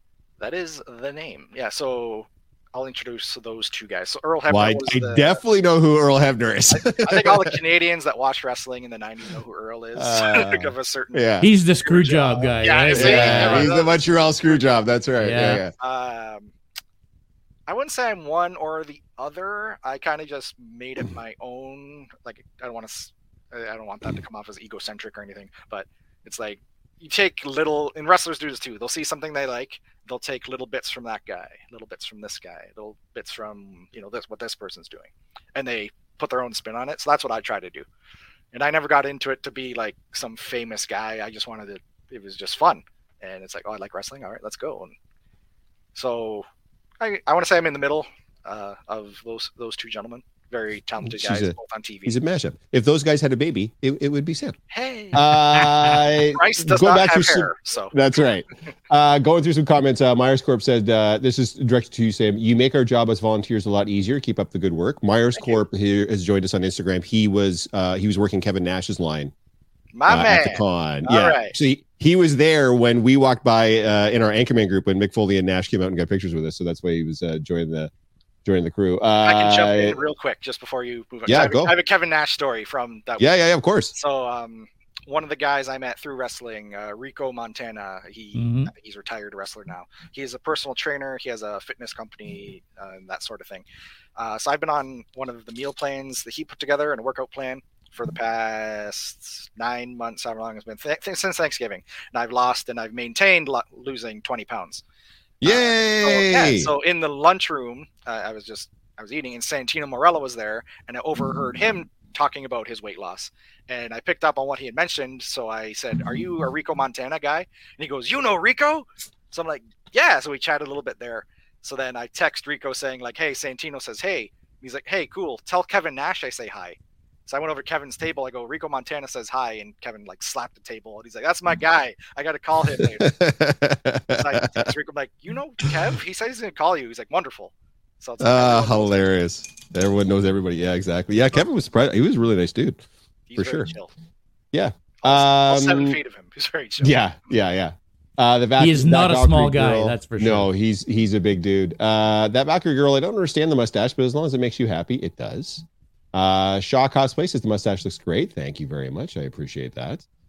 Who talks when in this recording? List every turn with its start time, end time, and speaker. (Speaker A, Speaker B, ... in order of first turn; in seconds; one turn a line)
Speaker A: 0.4-5.4
Speaker B: 4.5-7.6
Speaker A: 6.7-11.2
Speaker B: 10.0-11.5
Speaker C: 11.4-13.7
Speaker A: 11.8-14.6
Speaker B: 12.9-15.7
Speaker C: 15.2-15.6
Speaker A: 15.8-16.5
Speaker A: 17.7-37.9
Speaker A: 38.5-44.9
Speaker A: 46.0-46.5
Speaker A: 47.0-52.1
Speaker B: 51.0-51.5
Speaker B: 52.1-54.6
Speaker A: 54.7-55.6
Speaker B: 55.1-69.3
Speaker A: 56.3-58.0
Speaker A: 69.9-71.5
Speaker B: 70.1-77.9
Speaker B: 78.5-80.0
Speaker A: 79.2-83.4
Speaker B: 81.3-81.7
Speaker B: 83.2-83.9
Speaker A: 84.0-93.6
Speaker C: 88.3-88.7
Speaker A: 94.2-104.8
Speaker B: 105.4-106.7
Speaker A: 105.4-133.2
Speaker B: 132.8-134.7
Speaker A: 134.2-139.2
Speaker B: 138.2-142.8
Speaker A: 143.3-143.9
Speaker B: 143.4-143.7
Speaker B: 144.5-146.0
Speaker A: 145.0-147.0
Speaker B: 146.8-160.0
Speaker C: 148.6-150.5